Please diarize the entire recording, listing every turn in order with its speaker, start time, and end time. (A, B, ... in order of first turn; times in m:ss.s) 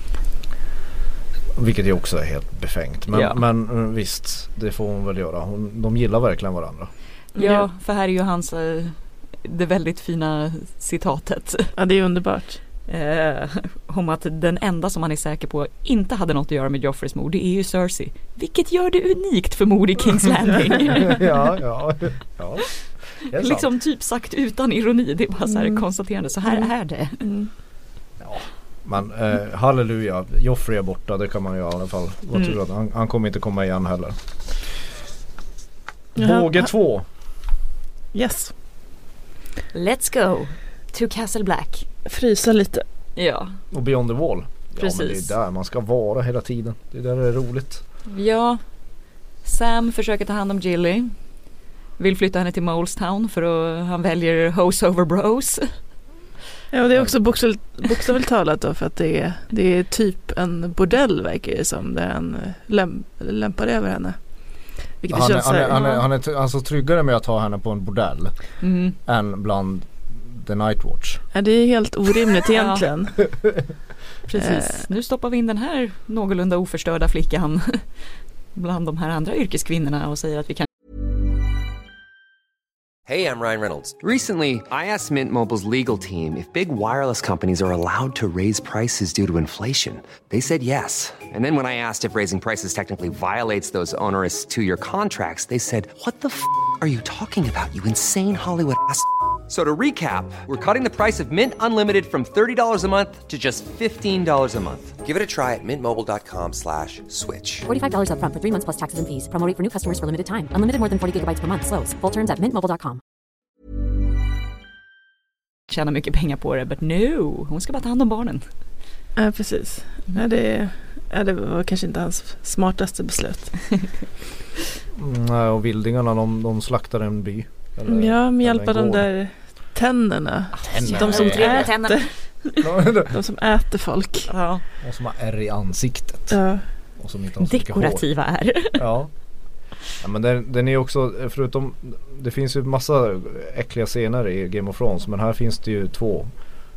0:01.6-0:06.9 A
0:03.1-0:03.4 B
0:07.4-0:07.7 C
0:07.4-0:11.7 B
0:11.7-0:12.6 C
0:12.8-0:21.2 B
0:20.8-0:23.7 A
0:23.3-0:27.2 B
0:25.5-0:25.8 C
0:27.2-0:27.5 C
0:28.2-0:34.7 A
0:36.2-0:36.7 C
0:36.2-0:37.0 A
0:38.1-0:38.5 C
0:39.7-0:41.8 B
0:42.0-0:42.8 C
0:43.2-0:43.6 B
0:43.7-0:47.8 A
0:44.8-0:45.3 B
0:48.1-0:48.6 B
0:49.4-0:51.3 B
0:52.0-0:55.8 B
0:56.7-1:06.0 C
1:05.1-1:11.2 A
1:08.6-1:09.0 B
1:11.3-1:13.4 C
1:12.5-1:12.9 B
1:14.3-1:17.9 B
1:14.4-1:14.8 C
1:18.5-1:20.7 B
1:23.0-1:47.6 D
1:47.6-1:53.0 E
1:55.7-1:58.5 B
1:59.2-2:04.0 C
2:04.9-2:09.1 A
2:07.8-2:14.3 C
2:10.6-2:12.1 B
2:10.7-2:11.7 A
2:12.6-2:13.1 A
2:14.3-2:14.6 B
2:14.8-2:16.4 A
2:16.3-2:16.6 C
2:17.0-2:18.1 A
2:17.4-2:18.8 B
2:18.7-2:19.1 A
2:20.0-2:26.3 A